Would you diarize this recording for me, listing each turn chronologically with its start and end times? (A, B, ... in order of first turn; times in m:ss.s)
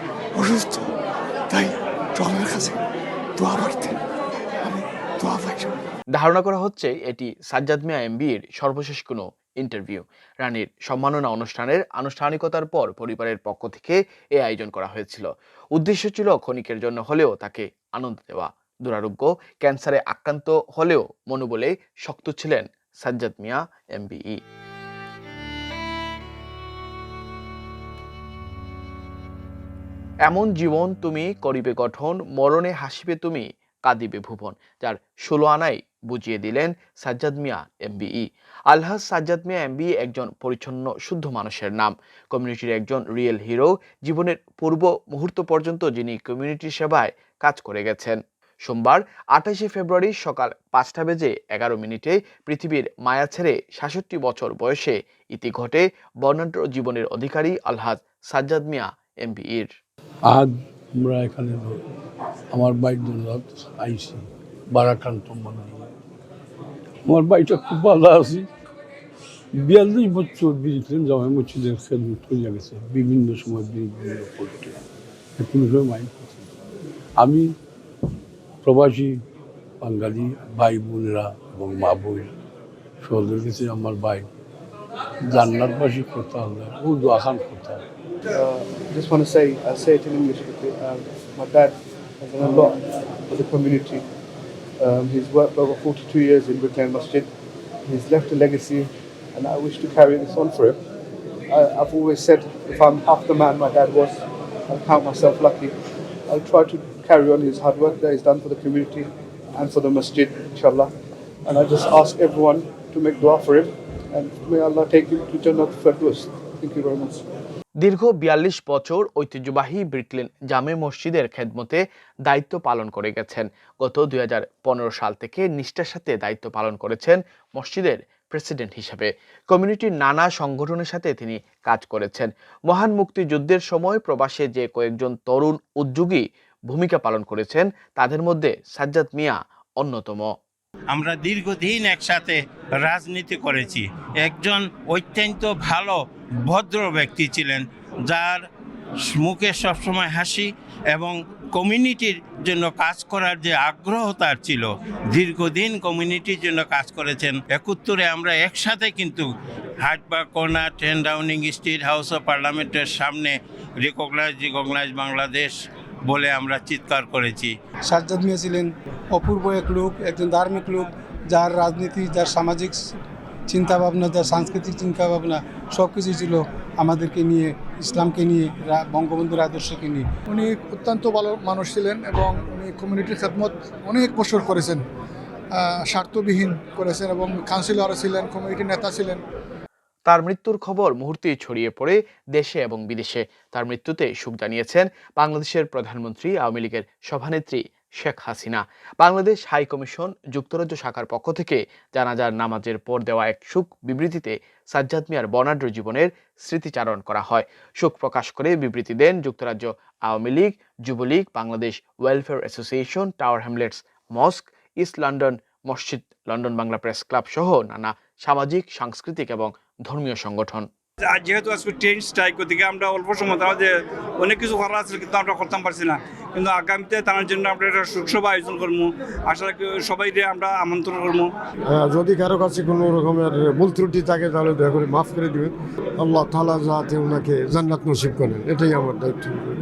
0:00.3-0:00.9 A
0:01.5-0:02.8 A
0:03.4-0:04.0 A
0:04.6-0:05.7 A
0:06.1-0:24.4 B
0:30.2-0:59.7 B
1:00.2-1:01.8 C
1:02.5-1:05.9 C
1:07.0-1:08.5 C
1:09.5-1:14.8 C
1:15.4-1:16.6 C
1:17.2-1:17.6 C
1:18.6-1:19.2 C
1:19.8-1:22.3 C
1:23.0-1:24.3 C
1:25.2-1:27.8 C
1:28.3-1:34.0 D
1:34.8-1:37.3 D
1:37.8-1:40.8 D
1:41.5-1:44.2 D
1:44.7-1:45.7 D
1:46.3-1:50.9 D
1:51.4-1:57.2 D
1:57.8-2:20.3 B
2:20.9-2:28.4 E
2:29.1-2:39.2 E
2:39.8-2:45.5 E
2:46.0-2:47.5 E
2:47.9-2:52.8 F
2:53.5-3:00.0 F
3:00.3-3:04.8 G
3:05.8-3:09.2 G
3:10.1-3:40.6 B
3:41.1-3:51.3 H
3:51.7-3:59.5 I